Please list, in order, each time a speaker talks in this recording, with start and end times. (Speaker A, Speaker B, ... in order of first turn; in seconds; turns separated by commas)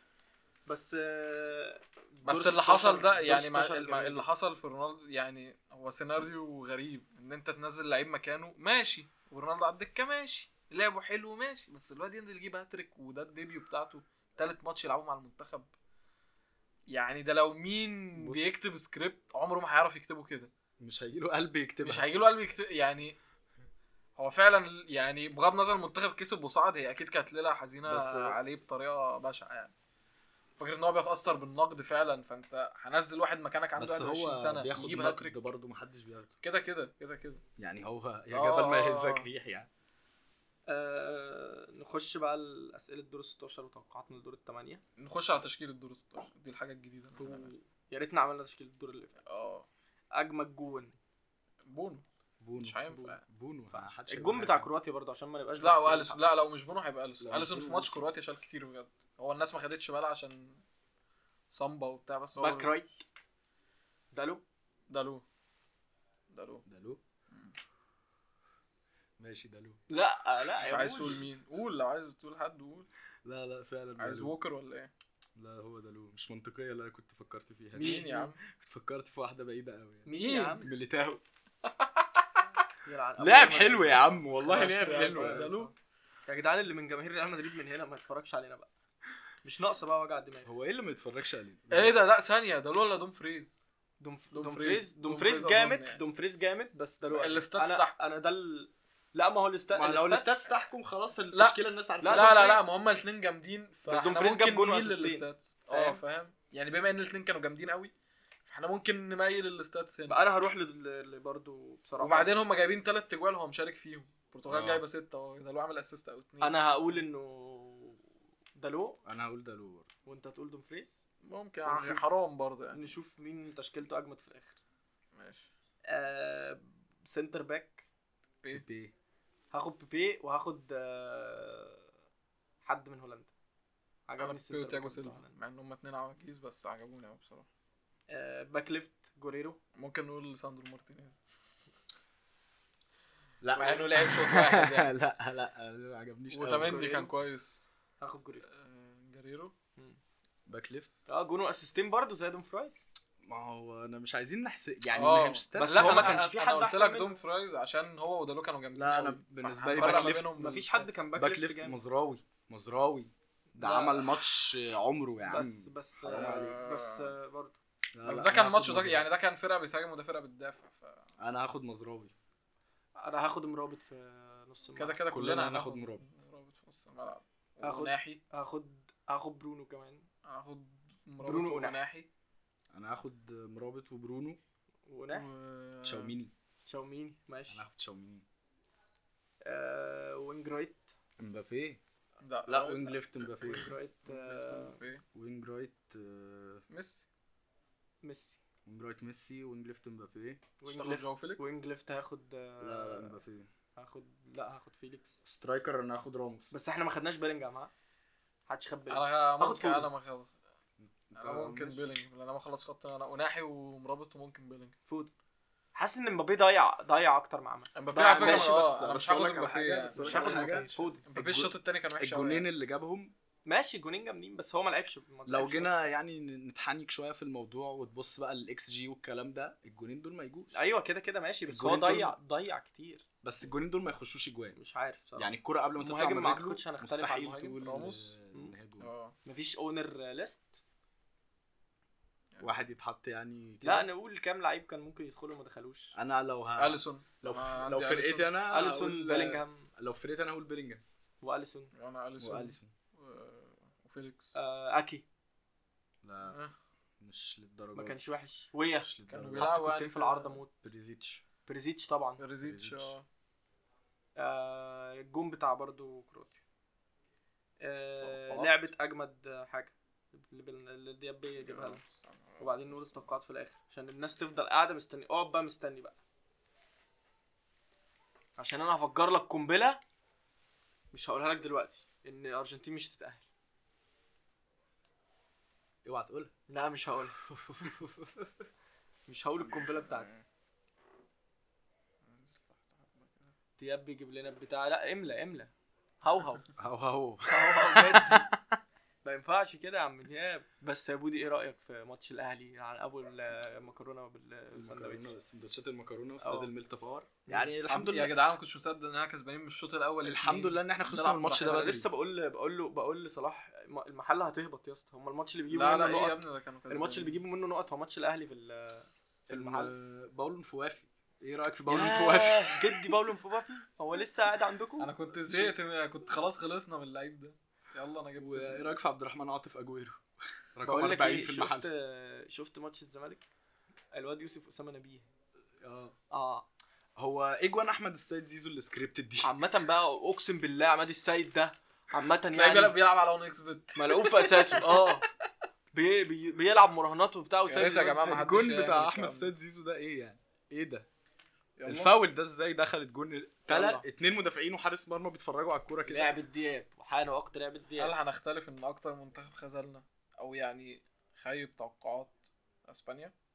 Speaker A: 0.7-4.2, Speaker B: 2.2-15.7, Speaker B: 16.9-20.5, Speaker C: 18.2-18.6, Speaker C: 20.8-22.0, Speaker B: 21.8-23.1, Speaker B: 24.2-29.7, Speaker C: 27.8-28.4, Speaker B: 30.6-35.4, Speaker C: 33.8-36.3, Speaker B: 36.4-37.4, Speaker C: 37.6-39.7, Speaker B: 38.3-39.3, Speaker A: 40.7-44.8, Speaker B: 45.0-47.5, Speaker A: 47.2-49.2, Speaker B: 49.2-49.6, Speaker A: 50.1-51.0, Speaker B: 51.6-52.0, Speaker C: 52.4-54.7, Speaker B: 52.6-53.2, Speaker A: 52.9-53.1, Speaker A: 54.0-56.2, Speaker B: 55.6-60.6, Speaker C: 57.2-58.1, Speaker B: 61.5-62.8, Speaker A: 62.4-63.0, Speaker A: 64.1-64.4, Speaker B: 64.9-65.2, Speaker B: 66.3-66.6, Speaker C: 66.7-67.0, Speaker C: 69.2-69.8, Speaker A: 69.9-71.2, Speaker B: 70.6-72.9, Speaker C: 73.2-74.3, Speaker B: 74.0-74.9, Speaker C: 75.3-80.1, Speaker A: 77.7-78.3, Speaker B: 77.8-78.4, Speaker A: 80.0-80.7, Speaker B: 80.1-80.7, Speaker C: 80.6-81.2, Speaker A: 82.8-85.7, Speaker C: 83.2-85.7, Speaker B: 84.6-85.6, Speaker A: 86.3-88.7, Speaker A: 89.4-90.5, Speaker C: 90.4-91.9, Speaker B: 91.7-93.5, Speaker A: 94.0-100.4, Speaker B: 94.3-96.0, Speaker B: 97.1-97.9, Speaker C: 99.7-102.5, Speaker B: 101.3-107.9, Speaker A: 102.0-102.8, Speaker A: 103.9-106.0, Speaker B: 108.5-110.2, Speaker A: 110.1-112.3, Speaker B: 112.0-116.8, Speaker C: 114.5-114.8, Speaker A: 116.4-118.0, Speaker A: 118.5-119.0, Speaker C: 119.0-119.9, Speaker A: 120.0-121.0, Speaker B: 121.2-122.8, Speaker A: 121.6-122.0, Speaker A: 122.7-124.6, Speaker B: 125.2-125.5, Speaker A: 125.9-127.8, Speaker C: 128.5-128.9, Speaker A: 129.5-131.8, Speaker A: 132.6-133.3, Speaker A: 134.1-135.3, Speaker B: 134.2-137.5, Speaker A: 138.1-139.6, Speaker B: 139.8-141.2, Speaker C: 143.4-146.9, Speaker B: 143.5-144.9, Speaker A: 143.6-143.8, Speaker B: 146.3-147.6, Speaker A: 146.6-147.1, Speaker A: 148.0-148.4, Speaker B: 148.4-149.5, Speaker C: 150.5-150.9, Speaker A: 151.1-152.8, Speaker C: 153.2-156.2, Speaker B: 154.9-160.9, Speaker A: 155.5-157.1, Speaker C: 158.7-160.4, Speaker A: 159.8-161.8, Speaker C: 161.2-166.6, Speaker A: 163.5-164.2, Speaker A: 165.2-167.6, Speaker B: 166.1-167.1, Speaker C: 167.9-169.0, Speaker B: 168.1-171.0, Speaker C: 171.2-172.1, Speaker A: 173.0-175.0, Speaker B: 174.8-178.2, Speaker C: 175.1-176.0, Speaker A: 177.6-180.1, Speaker B: 180.2-182.1, Speaker A: 181.2-181.8, Speaker C: 182.7-184.4, Speaker A: 184.8-185.3, Speaker B: 185.1-186.1, Speaker C: 185.8-186.3, Speaker A: 186.7-187.6, Speaker C: 187.5-188.2, Speaker A: 189.4-190.9, Speaker C: 191.2-191.8, Speaker B: 192.2-195.0, Speaker C: 192.5-193.7, Speaker A: 193.4-194.8, Speaker C: 195.1-196.6, Speaker B: 196.7-197.0, Speaker A: 198.0-198.4, Speaker C: 198.6-200.4, Speaker A: 200.6-203.2, Speaker B: 200.6-201.5, Speaker C: 202.6-203.5, Speaker A: 203.8-205.2, Speaker C: 205.2-206.5, Speaker A: 206.5-207.7, Speaker A: 208.5-209.9, Speaker B: 208.9-210.3, Speaker C: 210.8-211.8, Speaker B: 211.2-214.8, Speaker A: 214.9-215.1, Speaker A: 215.7-218.6, Speaker B: 217.7-222.5, Speaker C: 218.1-223.1, Speaker A: 219.9-221.0, Speaker A: 223.4-225.9, Speaker C: 225.2-230.6, Speaker A: 230.5-233.0, Speaker C: 231.5-232.2, Speaker C: 233.2-234.6, Speaker A: 234.6-237.6, Speaker C: 235.2-238.9, Speaker B: 237.6-238.1, Speaker B: 238.8-239.1, Speaker A: 239.2-240.6, Speaker C: 242.4-243.9, Speaker A: 243.6-245.9, Speaker C: 245.9-250.8, Speaker B: 246.6-248.3, Speaker A: 248.5-249.7, Speaker A: 251.2-251.7, Speaker B: 251.7-254.3, Speaker C: 252.2-252.7, Speaker A: 254.3-255.0, Speaker C: 256.0-256.4, Speaker B: 256.2-256.5, Speaker C: 257.0-258.1, Speaker A: 257.7-260.5, Speaker C: 258.8-259.5, Speaker B: 259.1-260.4, Speaker C: 260.6-261.2, Speaker A: 261.4-262.2, Speaker B: 262.2-263.0, Speaker C: 262.4-262.9, Speaker A: 264.2-266.4, Speaker A: 267.6-271.8, Speaker B: 268.0-268.5, Speaker B: 271.4-273.0, Speaker A: 272.4-276.0, Speaker A: 278.4-279.8, Speaker A: 280.9-283.2, Speaker C: 285.8-286.3, Speaker A: 286.5-287.9, Speaker A: 289.1-290.1, Speaker B: 292.1-293.3, Speaker A: 293.6-296.5, Speaker C: 296.6-298.6, Speaker A: 297.3-298.3, Speaker A: 299.0-305.1, Speaker C: 304.5-308.1, Speaker A: 306.2-306.5, Speaker A: 307.3-307.6, Speaker B: 307.6-311.7, Speaker C: 310.0-311.9, Speaker A: 311.3-319.7, Speaker B: 315.5-317.2, Speaker C: 319.3-322.9, Speaker A: 321.7-325.4, Speaker B: 324.8-328.7, Speaker C: 328.2-330.0, Speaker C: 330.5-331.7, Speaker A: 330.6-333.2, Speaker A: 333.9-335.1, Speaker C: 335.6-335.9, Speaker A: 336.1-336.4, Speaker C: 337.0-339.3, Speaker A: 339.2-342.8, Speaker B: 342.3-345.1, Speaker A: 343.7-345.0, Speaker A: 345.7-348.1, Speaker B: 347.5-349.3, Speaker C: 348.0-350.9, Speaker B: 351.6-351.9, Speaker C: 351.6-356.1, Speaker A: 353.5-353.8, Speaker A: 355.9-357.9, Speaker B: 357.8-362.1, Speaker B: 362.6-363.1